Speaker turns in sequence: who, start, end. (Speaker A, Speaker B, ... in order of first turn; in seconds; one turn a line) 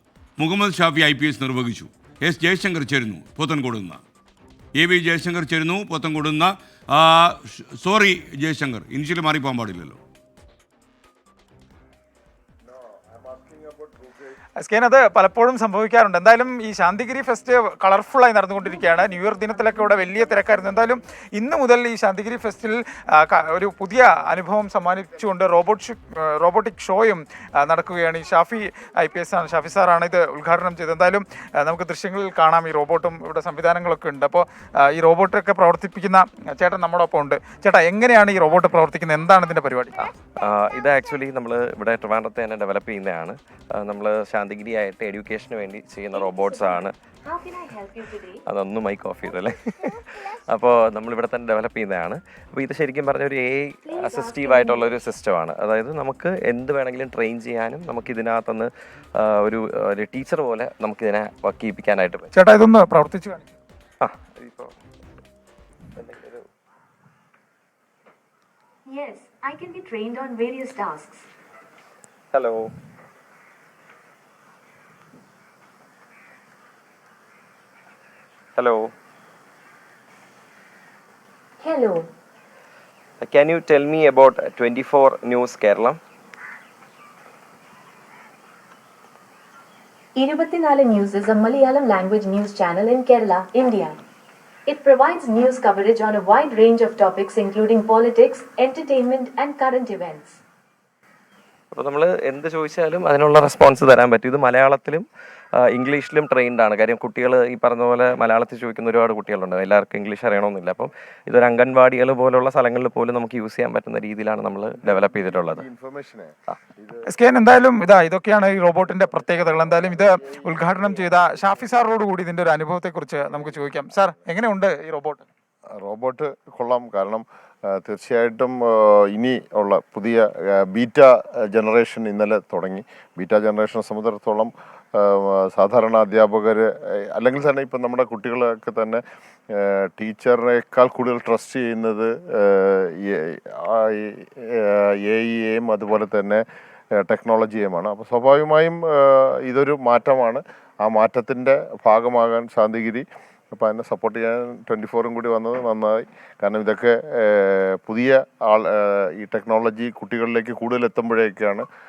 Speaker A: 0.4-4.0
Speaker A: 4.8-10.0
Speaker B: 13.1-14.2
Speaker C: 14.6-40.0
Speaker D: 40.0-47.0
Speaker E: 46.2-48.4
Speaker D: 48.5-62.3
Speaker E: 53.9-54.9
Speaker C: 62.3-63.5
Speaker D: 64.0-64.7
Speaker D: 66.0-66.5
Speaker E: 68.9-71.2
Speaker D: 72.3-72.7
Speaker D: 78.5-78.9
Speaker E: 81.6-82.0
Speaker D: 83.2-86.0
Speaker E: 90.2-94.0
Speaker E: 94.7-100.4
Speaker D: 101.7-115.7
Speaker B: 114.8-117.1
Speaker C: 117.1-125.3
Speaker B: 119.7-121.6
Speaker B: 123.3-124.1
Speaker B: 125.8-139.0
Speaker B: 139.5-146.4
Speaker B: 147.0-161.7